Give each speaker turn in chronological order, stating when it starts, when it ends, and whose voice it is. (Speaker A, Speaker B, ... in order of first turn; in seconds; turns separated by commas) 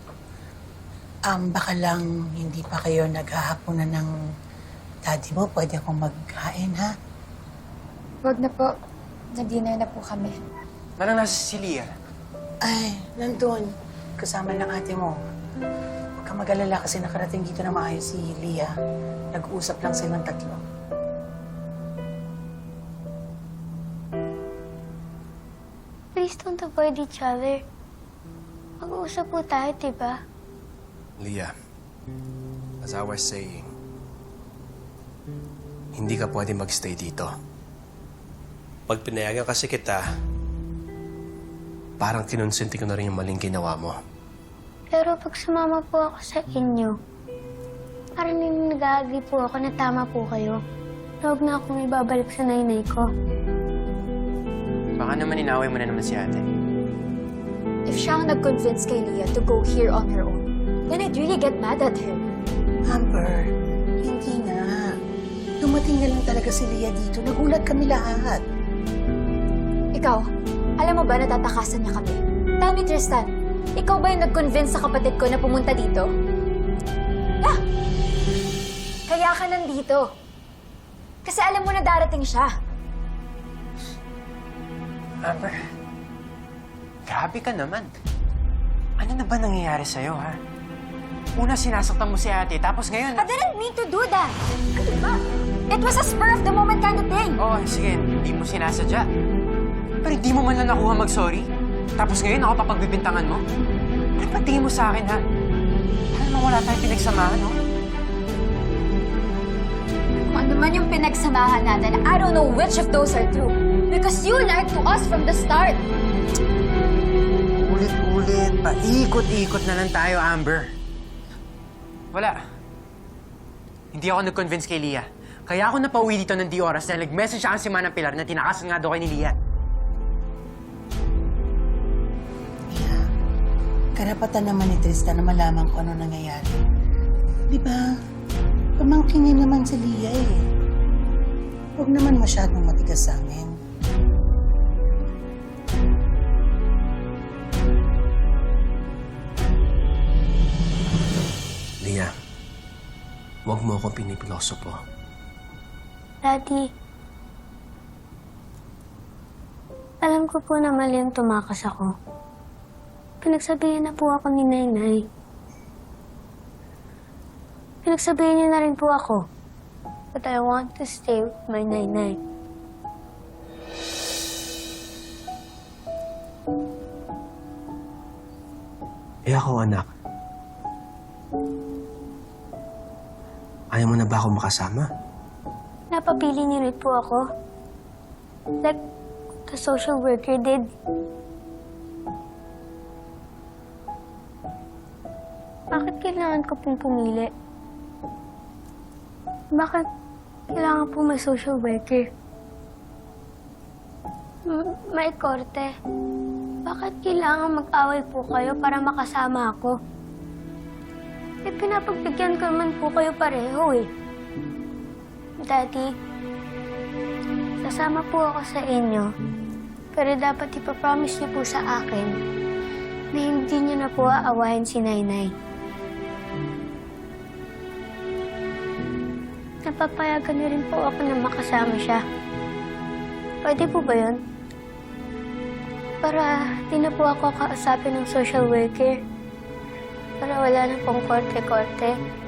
Speaker A: 1.3-4.1, Speaker A: 5.1-6.9, Speaker B: 8.2-8.7, Speaker B: 9.3-10.3, Speaker C: 11.0-11.9, Speaker A: 12.7-15.2, Speaker A: 16.2-18.7, Speaker A: 19.3-20.6, Speaker D: 26.2-27.6, Speaker D: 28.8-30.2, Speaker E: 31.2-31.5, Speaker E: 32.8-33.7, Speaker E: 36.0-37.3, Speaker E: 38.9-40.0, Speaker E: 42.0-44.0, Speaker D: 44.9-46.9, Speaker D: 48.2-50.6, Speaker D: 51.2-53.0, Speaker C: 55.0-56.5, Speaker B: 57.9-62.2, Speaker A: 62.9-63.5, Speaker A: 64.0-64.9, Speaker A: 65.6-68.4, Speaker B: 69.9-70.2, Speaker B: 70.8-76.1, Speaker B: 79.1-80.1, Speaker B: 81.2-82.5, Speaker C: 85.2-85.7, Speaker C: 87.1-87.9, Speaker C: 89.0-90.4, Speaker C: 91.4-93.2, Speaker B: 93.2-97.4, Speaker C: 97.4-99.1, Speaker C: 100.0-103.5, Speaker C: 104.2-105.2, Speaker C: 106.1-107.6, Speaker B: 110.3-115.8, Speaker C: 117.6-120.7, Speaker C: 122.1-122.4, Speaker C: 123.9-129.4, Speaker A: 132.7-133.1, Speaker A: 134.0-136.6, Speaker A: 137.5-137.8, Speaker A: 138.8-140.4, Speaker A: 141.8-143.5, Speaker E: 151.8-152.1, Speaker E: 153.5-154.8, Speaker D: 156.2-156.6, Speaker D: 160.0-161.9, Speaker D: 163.2-165.0, Speaker D: 167.8-169.2, Speaker D: 170.2-172.2, Speaker E: 179.3-179.9, Speaker E: 183.7-184.8, Speaker D: 185.9-187.2, Speaker D: 189.5-190.6, Speaker D: 195.7-197.3, Speaker D: 199.6-199.8, Speaker D: 200.5-202.1, Speaker D: 204.5-205.7, Speaker D: 206.7-209.8, Speaker D: 211.5-213.9, Speaker D: 215.4-215.9, Speaker D: 217.6-219.1, Speaker D: 219.9-222.2, Speaker D: 223.1-225.3, Speaker D: 229.7-232.0, Speaker D: 233.4-234.2, Speaker D: 236.0-238.9, Speaker D: 240.2-241.9